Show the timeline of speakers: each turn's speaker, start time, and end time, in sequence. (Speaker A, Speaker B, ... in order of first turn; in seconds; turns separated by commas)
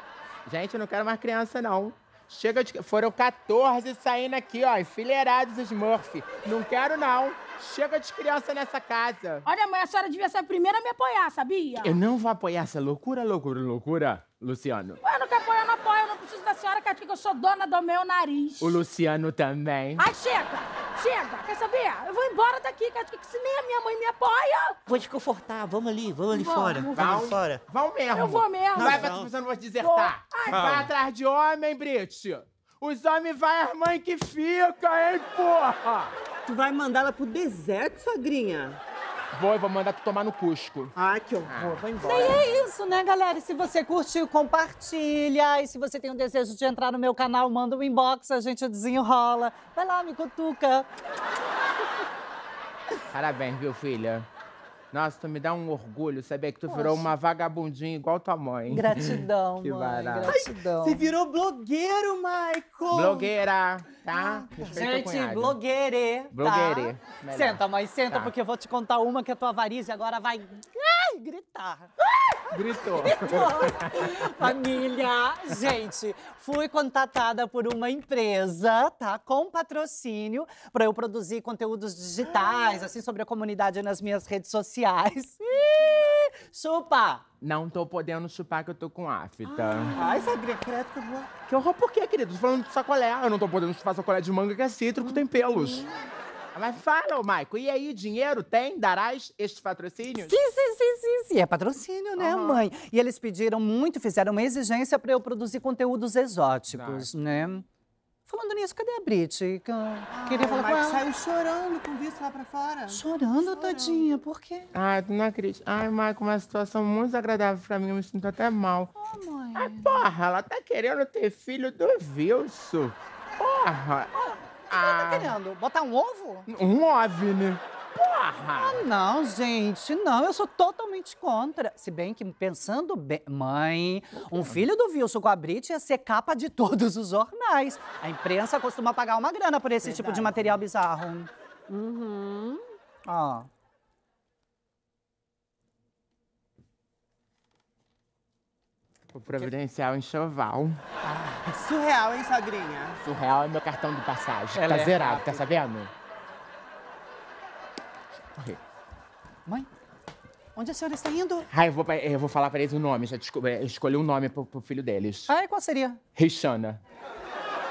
Speaker A: 0.5-9.4, Speaker B: 9.4-12.0, Speaker A: 11.8-15.0, Speaker B: 15.0-18.8, Speaker A: 18.6-20.1, Speaker B: 20.0-24.8, Speaker C: 24.9-27.6, Speaker B: 26.3-27.2, Speaker A: 26.9-36.1, Speaker B: 28.1-29.1, Speaker C: 28.8-29.3, Speaker B: 29.8-30.6, Speaker C: 30.5-30.9, Speaker D: 36.5-38.8, Speaker A: 39.3-40.9, Speaker D: 41.0-42.7, Speaker A: 41.5-41.9, Speaker E: 42.0-50.9, Speaker A: 53.1-54.3, Speaker A: 54.9-60.4, Speaker E: 56.7-57.1, Speaker E: 58.7-61.1, Speaker D: 60.3-63.3, Speaker A: 62.9-65.6, Speaker E: 64.1-87.2, Speaker A: 66.3-68.3, Speaker A: 72.5-74.5, Speaker A: 87.4-89.9, Speaker D: 89.7-91.3, Speaker A: 91.5-95.9, Speaker A: 96.5-100.3, Speaker E: 100.2-107.7, Speaker D: 102.2-102.7, Speaker A: 106.7-107.1, Speaker E: 108.3-111.0, Speaker D: 110.1-114.1, Speaker E: 112.9-114.7, Speaker A: 114.7-118.9, Speaker E: 119.0-120.1, Speaker A: 119.5-125.4, Speaker E: 124.3-126.5, Speaker A: 126.5-128.8, Speaker E: 128.6-141.3, Speaker A: 134.3-134.7, Speaker D: 139.9-140.2, Speaker D: 141.7-142.6, Speaker E: 143.1-143.5, Speaker A: 149.1-150.8, Speaker E: 151.1-151.4, Speaker D: 151.4-153.0, Speaker A: 153.0-155.9, Speaker E: 154.5-155.6, Speaker E: 160.6-161.5, Speaker A: 161.5-165.3, Speaker E: 165.3-166.0, Speaker A: 166.2-166.8